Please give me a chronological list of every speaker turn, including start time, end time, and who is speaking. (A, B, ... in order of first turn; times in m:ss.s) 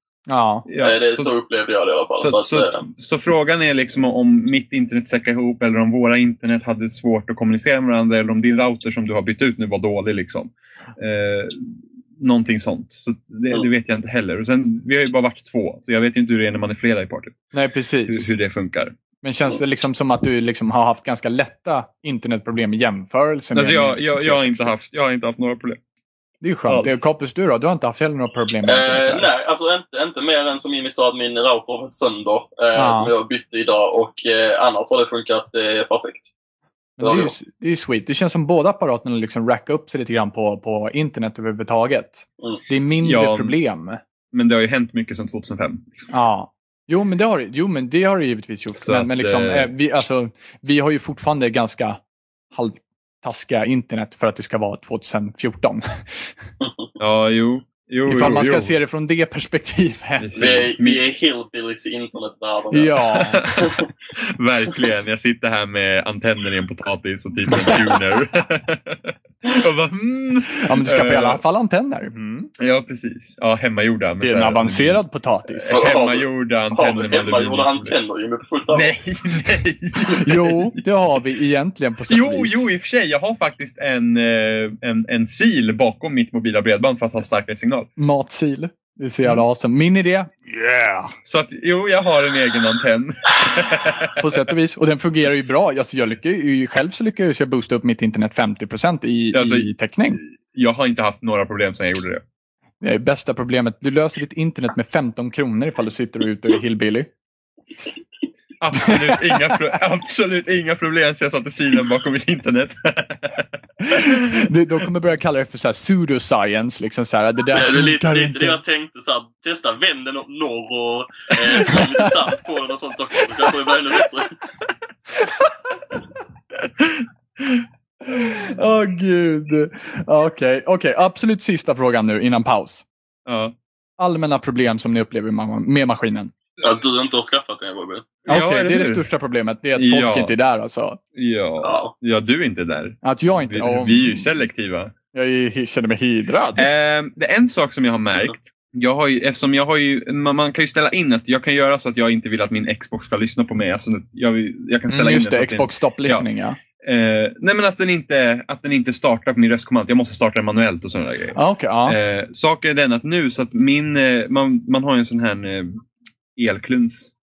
0:00.3-0:00.7 A
0:00.7-0:01.3 B
0:00.8-0:02.9 C
0:02.2-0:17.4 B
0:17.5-0:18.4 A
0:18.1-0:18.9 B
0:19.2-0:24.7 A
0:23.5-0:25.8 B
0:26.4-0:29.3 A
0:26.7-0:27.1 B
0:28.6-0:36.3 C
0:32.7-0:33.1 A
0:37.0-0:44.0 A
0:37.0-0:37.4 C
0:43.0-0:43.6 B
0:44.3-0:46.1 B
0:46.1-0:52.0 A
0:48.8-0:49.7 B
0:52.5-0:56.3 A
0:56.6-0:56.9 C
0:57.0-0:58.7 B
0:58.1-1:00.4 A
1:00.2-1:01.0 B
1:00.4-1:03.9 C
1:02.7-1:03.4 A
1:03.3-1:11.4 B
1:10.5-1:12.5 A
1:12.6-1:18.0 B
1:14.2-1:15.8 A
1:15.7-1:18.9 C
1:18.7-1:20.8 B
1:20.1-1:22.7 A
1:22.1-1:27.9 B
1:28.0-1:31.1 A
1:31.2-1:34.2 B
1:34.2-1:40.2 A
1:39.3-1:42.2 B
1:42.8-1:47.1 A
1:48.6-1:54.2 B
1:53.8-1:58.6 A
1:57.5-2:04.4 C
2:01.6-2:02.1 A
2:05.2-2:05.5 A
2:06.8-2:07.6 B
2:08.1-2:12.8 A
2:13.3-2:13.6 B
2:14.0-2:16.3 A
2:16.6-2:18.1 C
2:18.3-2:19.0 B
2:18.3-2:21.0 A
2:19.8-2:20.3 B
2:21.1-2:24.9 B
2:21.6-2:21.9 C
2:23.0-2:24.3 A
2:25.1-2:26.7 A
2:26.6-2:36.3 B
2:34.9-2:36.6 A
2:36.8-2:45.8 B
2:41.4-2:42.0 A
2:46.4-2:47.1 B